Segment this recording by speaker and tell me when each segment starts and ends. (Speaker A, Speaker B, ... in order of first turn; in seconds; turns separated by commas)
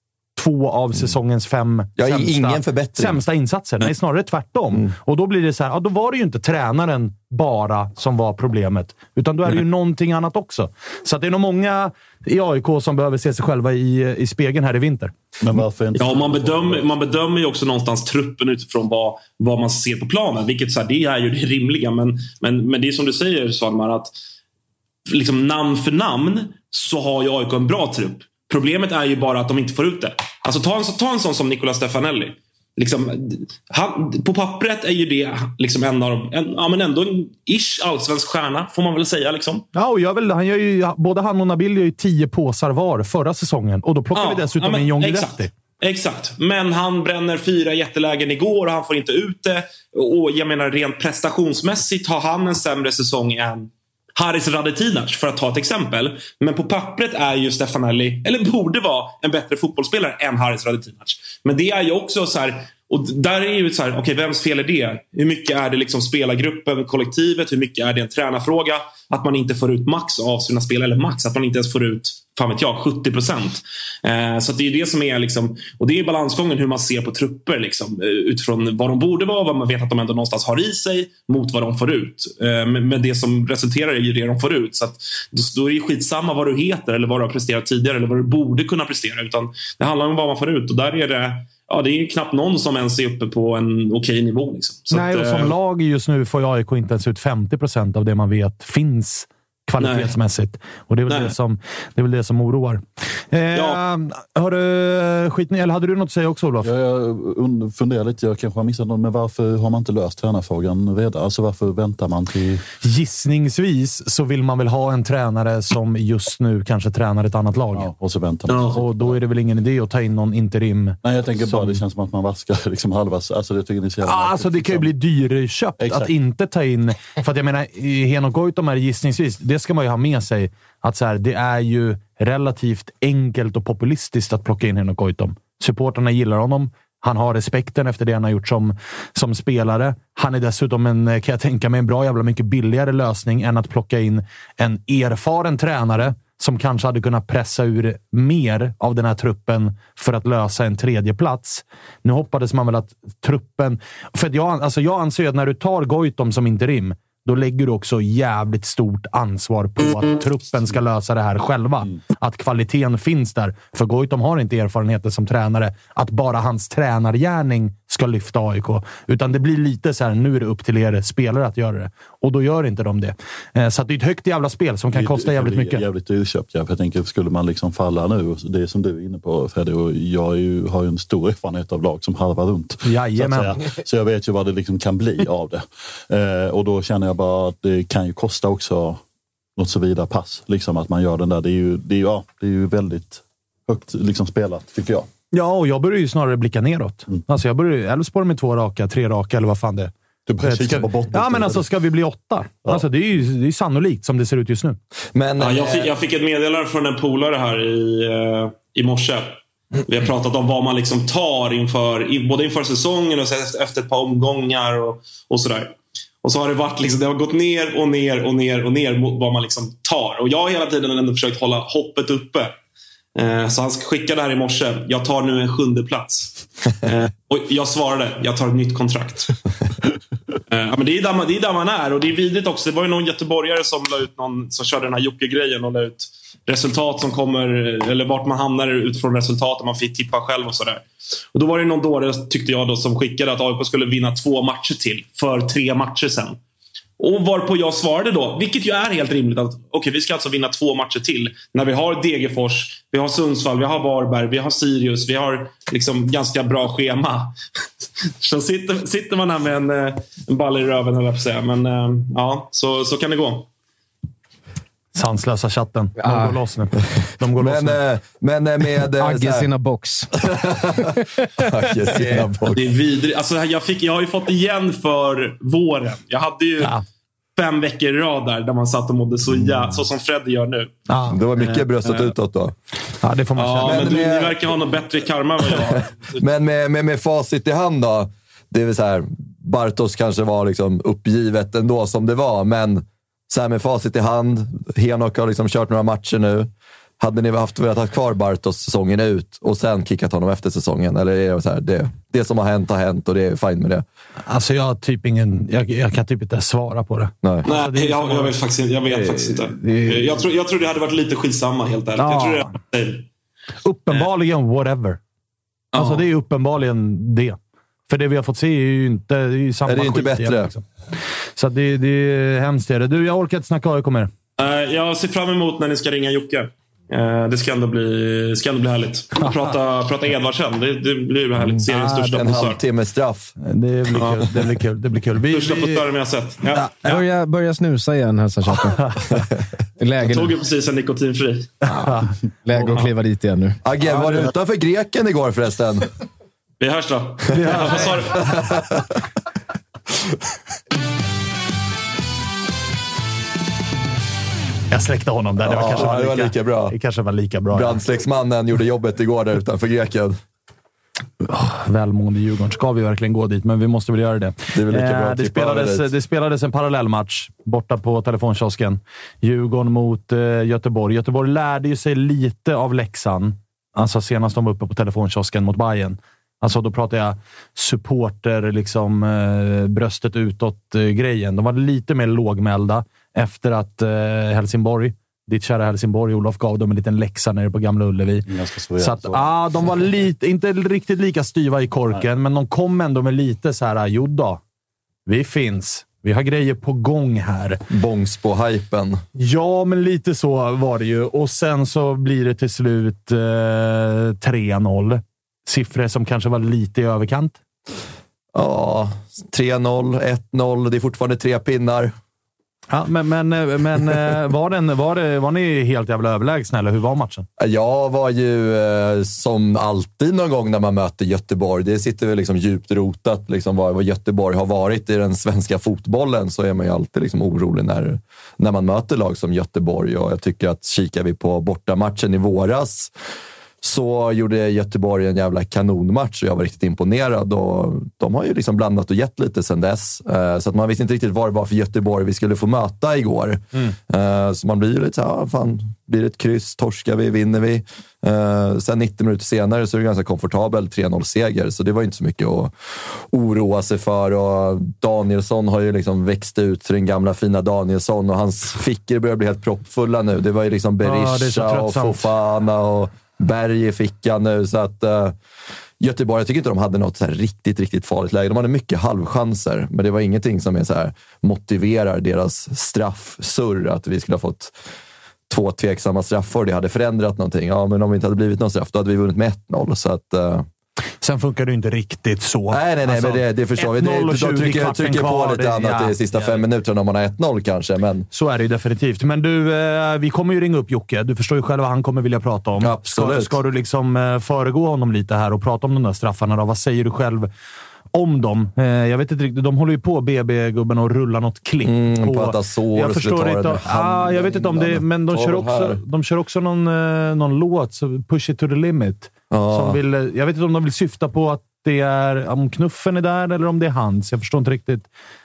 Speaker A: 0.3-15.1, Speaker B: 2.0-3.2, Speaker C: 15.4-16.9, Speaker D: 15.9-24.1, Speaker D: 25.1-39.6, Speaker A: 39.7-45.5, Speaker D: 44.1-95.5, Speaker A: 94.9-106.7, Speaker D: 99.8-100.1, Speaker D: 103.5-103.8, Speaker C: 106.6-112.6, Speaker A: 112.8-117.9, Speaker C: 117.7-119.2, Speaker A: 118.7-121.8, Speaker C: 121.0-124.9, Speaker A: 124.0-175.8, Speaker C: 125.8-126.1, Speaker C: 174.9-189.0, Speaker A: 182.8-183.5, Speaker C: 189.6-195.1, Speaker A: 195.3-199.9, Speaker C: 200.2-201.6, Speaker A: 200.4-204.8, Speaker B: 205.1-205.9, Speaker D: 205.4-222.5, Speaker D: 223.2-229.3, Speaker D: 230.5-246.4, Speaker D: 247.0-257.3, Speaker D: 258.2-263.5, Speaker A: 264.9-267.8, Speaker E: 266.0-266.4, Speaker B: 267.4-269.5, Speaker E: 269.0-270.1, Speaker B: 270.2-272.6, Speaker E: 271.9-272.5, Speaker D: 272.5-276.7, Speaker D: 277.4-280.7, Speaker A: 280.9-282.1, Speaker B: 281.1-282.5, Speaker A: 283.0-284.0, Speaker D: 283.4-286.2, Speaker B: 283.6-284.5, Speaker B: 285.6-303.9, Speaker A: 304.3-308.3, Speaker D: 307.4-313.0, Speaker E: 308.9-310.2, Speaker A: 312.0-312.5, Speaker A: 313.6-315.0, Speaker D: 315.7-316.1, Speaker A: 315.7-320.6, Speaker B: 319.6-320.5, Speaker A: 321.4-324.1, Speaker D: 324.4-332.6, Speaker A: 329.2-329.6, Speaker B: 331.4-333.3, Speaker A: 331.7-332.4, Speaker A: 333.4-335.8, Speaker D: 334.0-334.3, Speaker D: 335.3-337.0, Speaker E: 336.8-338.9, Speaker E: 339.8-340.4, Speaker D: 340.0-341.5, Speaker E: 341.6-344.3, Speaker A: 341.7-342.8, Speaker B: 343.6-345.9, Speaker D: 346.6-348.4, Speaker A: 347.3-347.9, Speaker B: 348.3-348.8, Speaker A: 354.7-357.8, Speaker B: 355.4-356.7, Speaker B: 357.5-360.2, Speaker A: 361.2-388.3, Speaker B: 364.5-365.9, Speaker C: 388.3-389.7, Speaker A: 388.8-394.4, Speaker A: 395.1-397.6, Speaker B: 397.7-399.0, Speaker A: 399.1-407.4, Speaker B: 408.3-411.9, Speaker A: 412.7-417.3, Speaker B: 417.4-432.9, Speaker B: 433.6-465.2, Speaker A: 460.8-462.1, Speaker B: 465.8-474.5, Speaker B: 475.3-480.4, Speaker A: 481.0-486.4, Speaker B: 482.5-488.1, Speaker A: 488.1-497.3, Speaker B: 492.6-493.4, Speaker A: 497.9-514.9, Speaker B: 501.6-505.8, Speaker B: 509.3-509.8